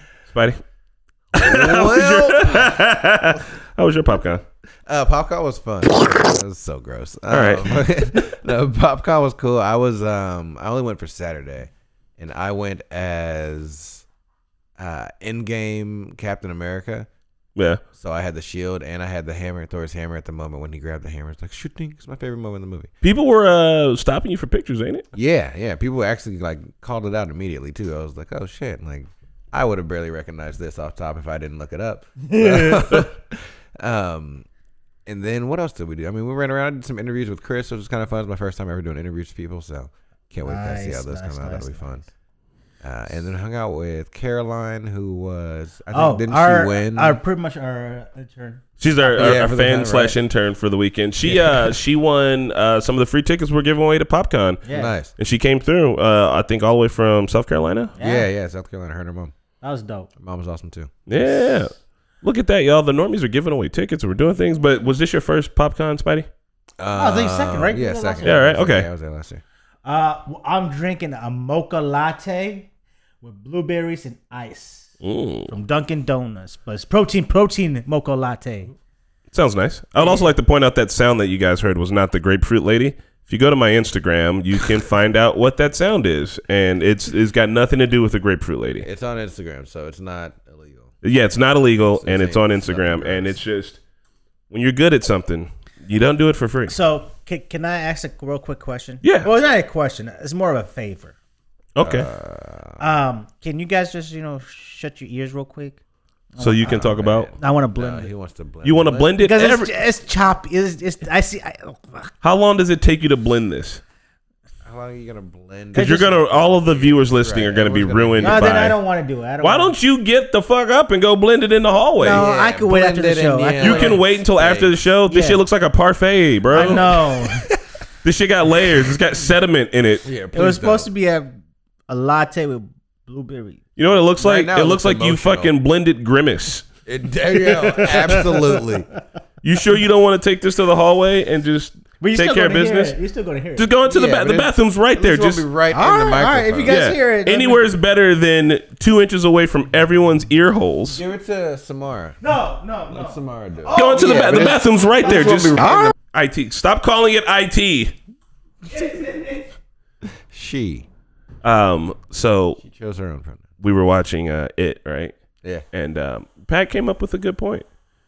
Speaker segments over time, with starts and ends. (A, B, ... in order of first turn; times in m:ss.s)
0:00.3-0:00.6 A
0:01.3-0:04.4 A
0:01.4-0:02.8 B
0:04.9-0:14.0 B
0:07.3-0:07.8 A
0:14.8-0:17.1 B
0:17.6-0:17.8 A
0:18.0-0:22.9 B
0:23.0-0:25.0 A
0:25.1-0:34.5 B
0:32.2-0:33.1 C
0:35.0-0:42.0 B
0:40.4-0:42.0 C
0:42.8-0:47.2 B
0:45.9-0:49.4 C
0:48.8-0:54.6 A
0:49.1-0:50.2 B
0:51.2-0:51.7 B
0:54.6-0:55.0 C
0:54.7-0:55.1 B
0:55.2-0:57.9 A
0:58.0-0:58.3 C
0:58.0-0:59.3 B
0:59.6-1:00.1 C
1:00.2-1:00.9 B
1:01.1-1:06.3 A
1:06.8-1:09.4 B
1:06.9-1:08.5 C
1:08.2-1:08.9 A
1:09.8-1:12.7 C
1:13.2-1:14.9 C
1:15.0-1:15.5 A
1:15.5-1:18.7 C
1:19.3-1:28.9 A
1:28.8-1:30.9 B
1:31.0-1:33.8 A
1:31.8-1:33.4 B
1:34.5-1:36.7 A
1:36.7-1:41.1 C
1:39.0-1:39.3 A
1:41.8-1:42.1 A
1:41.8-1:42.8 B
1:42.8-1:45.8 C
1:46.4-1:48.1 C
1:46.4-1:47.3 A
1:46.6-1:49.2 B
1:48.6-1:49.7 A
1:49.2-1:52.1 C
1:52.2-1:53.8 A
1:54.6-1:58.7 B
1:55.8-1:56.1 C
1:55.8-1:58.8 A
1:58.2-1:59.8 C
1:59.4-2:02.2 A
2:02.0-2:04.0 C
2:02.0-2:04.8 B
2:03.6-2:06.9 A
2:05.1-2:05.4 C
2:06.5-2:07.4 C
2:06.6-2:07.0 B
2:08.0-2:10.0 A
2:10.0-2:10.9 B
2:10.3-2:11.3 C
2:11.9-2:13.6 C
2:13.8-2:16.7 A
2:14.2-2:15.5 B
2:16.9-2:18.9 B
2:17.3-2:18.6 C
2:19.4-2:23.0 A
2:22.0-2:23.7 C
2:23.6-2:25.4 A
2:23.8-2:26.9 B
2:25.7-2:27.6 C
2:26.7-2:31.0 A
2:30.9-2:32.2 B
2:32.2-2:34.5 C
2:32.9-2:35.9 B
2:33.8-2:37.9 A
2:38.7-2:39.5 C
2:40.3-2:40.9 B
2:41.4-2:42.6 A
2:42.6-2:43.5 B
2:43.6-2:45.1 A
2:45.7-2:47.6 A